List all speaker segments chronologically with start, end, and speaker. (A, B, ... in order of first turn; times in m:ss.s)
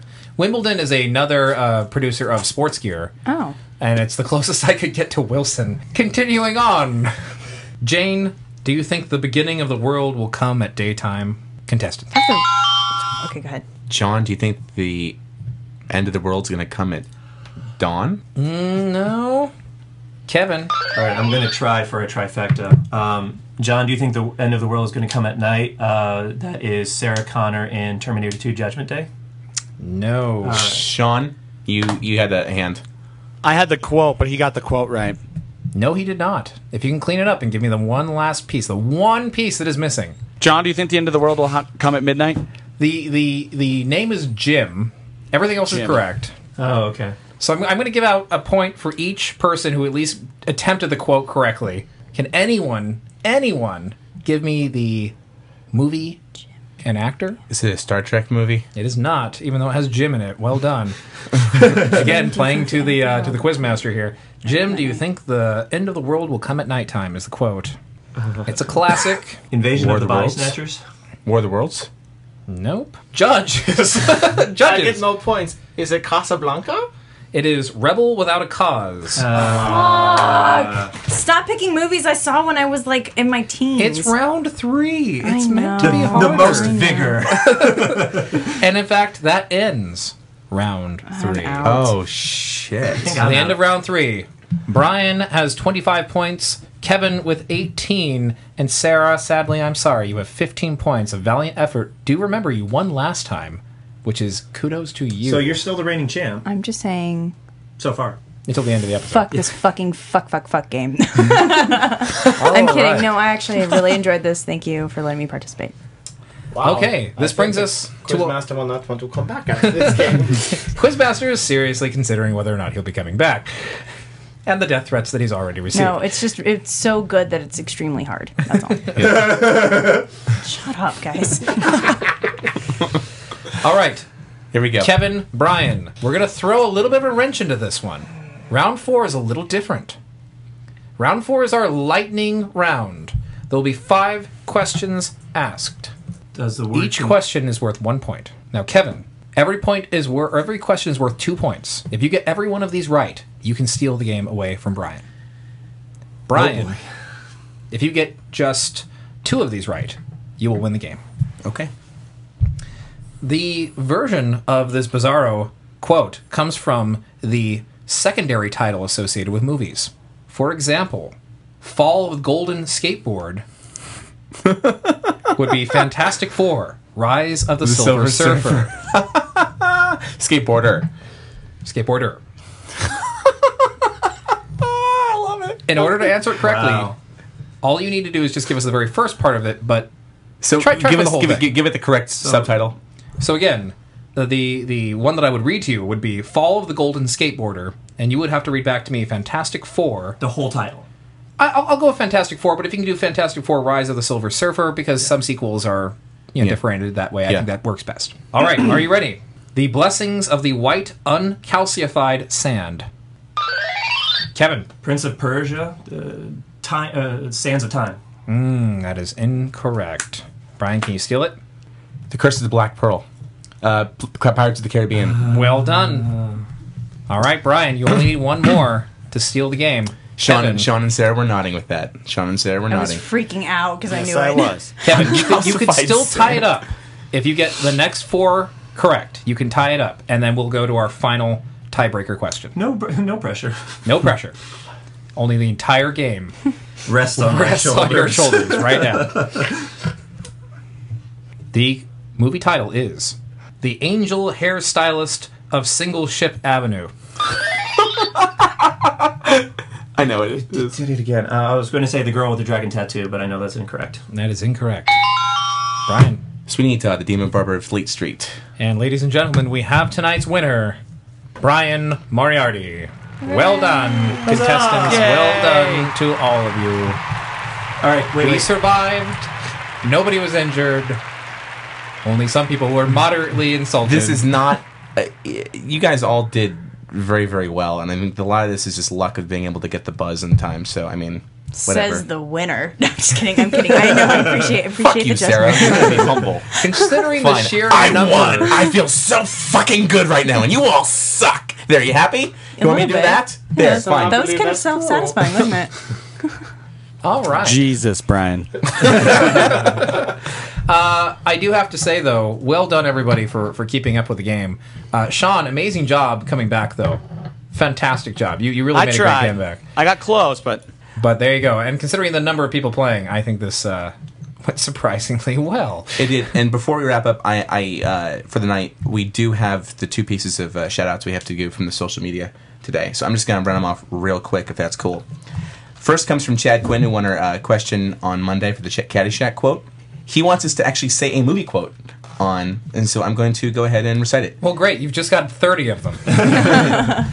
0:00.4-0:03.1 A
0:03.2-0:03.6 B
0:03.8-0:07.1 A
0:07.8-0:12.1 A
0:12.1-0:12.5 B
0:13.1-0:13.6 B
0:13.9-0:15.2 C
0:15.9-0:17.0 C
0:17.8-0:18.2 C
0:18.4-0:19.5 A
0:20.3-0:20.7 A
0:20.9-0:29.1 D
0:29.8-0:30.7 A
0:30.4-0:30.8 D
0:30.6-0:32.8 C
0:33.4-0:35.2 E
0:35.7-0:40.2 A
0:40.4-0:42.4 E
0:42.8-0:46.3 A
0:45.7-0:46.0 E
0:46.6-0:47.2 D
0:47.4-0:55.1 A
0:55.7-0:56.2 A
0:56.8-0:57.4 A
0:57.5-0:58.7 C
0:58.7-1:01.0 A
1:01.5-1:07.8 A
1:04.4-1:05.0 B
1:08.2-1:08.4 D
1:08.5-1:09.4 A
1:09.5-1:10.8 D
1:09.7-1:10.6 C
1:11.2-1:11.9 C
1:12.5-1:15.1 A
1:14.6-1:16.9 F
1:17.3-1:19.3 A
1:19.2-1:20.9 D
1:19.5-1:24.2 B
1:23.8-1:26.9 A
1:25.2-1:27.2 B
1:25.8-1:28.5 D
1:27.4-1:31.8 A
1:31.1-1:32.0 B
1:31.6-1:33.1 C
1:32.9-1:33.6 D
1:33.1-1:45.6 A
1:45.2-1:46.4 D
1:46.4-1:47.3 B
1:47.8-1:48.2 D
1:48.4-1:49.3 A
1:49.1-1:55.7 B
1:52.4-1:53.3 A
1:56.5-2:00.6 F
1:56.6-1:58.4 A
2:00.7-2:03.5 A
2:04.4-2:06.0 A
2:05.7-2:09.3 B
2:09.0-2:09.3 C
2:10.4-2:11.9 B
2:13.6-2:14.0 A
2:14.5-2:14.9 C
2:14.8-2:20.0 A
2:21.0-2:25.9 A
2:26.3-2:27.2 D
2:26.7-2:35.0 A
2:36.3-2:36.8 A
2:36.3-2:36.7 C
2:37.7-2:41.0 A
2:41.4-2:41.7 C
2:43.2-2:53.4 A
2:54.4-2:55.1 C
2:55.4-2:58.7 A
2:57.6-3:00.9 C
3:01.6-3:02.2 A
3:04.6-3:05.6 C
3:05.7-3:06.9 A
3:06.3-3:06.9 D
3:07.6-3:09.9 A
3:10.4-3:12.8 C
3:10.6-3:11.6 A
3:12.2-3:12.5 D
3:13.2-3:20.2 A
3:20.2-3:20.9 D
3:21.4-3:32.9 A
3:34.3-3:34.7 A
3:34.8-3:38.0 D
3:38.3-3:41.4 A
3:42.1-3:43.0 C
3:43.6-3:45.2 C
3:45.0-3:46.4 D
3:45.2-3:46.2 A
3:47.1-3:50.7 A
3:50.1-3:53.0 C
3:52.7-3:55.0 B
3:53.9-3:54.7 E
3:54.8-4:02.5 A
3:54.9-3:56.5 C
4:02.5-4:03.7 D
4:03.8-4:04.3 A
4:05.2-4:06.3 A
4:06.8-4:09.5 D
4:07.2-4:09.4 A
4:11.5-4:16.9 A
4:18.8-4:20.8 C
4:20.5-4:24.0 D
4:24.1-4:25.0 A
4:25.9-4:26.2 A
4:26.4-4:28.4 C
4:28.6-4:30.8 A
4:31.4-4:37.0 A
4:33.2-4:34.2 B
4:34.2-4:35.3 D
4:34.8-4:35.9 E
4:37.8-4:38.5 D
4:38.2-4:39.3 A
4:39.8-4:41.0 A
4:42.0-4:44.3 A
4:43.8-4:52.0 C
4:51.5-4:56.3 B
4:54.2-5:04.2 C
4:56.6-4:58.8 A
5:02.6-5:05.7 B
5:03.7-5:05.5 F
5:07.0-5:07.7 A
5:07.4-5:08.8 E
5:08.8-5:10.1 A
5:10.7-5:19.6 A
5:18.7-5:20.6 E
5:21.0-5:26.1 A
5:26.0-5:35.0 C
5:35.8-5:44.4 C
5:44.4-5:46.8 A
5:46.5-5:47.0 C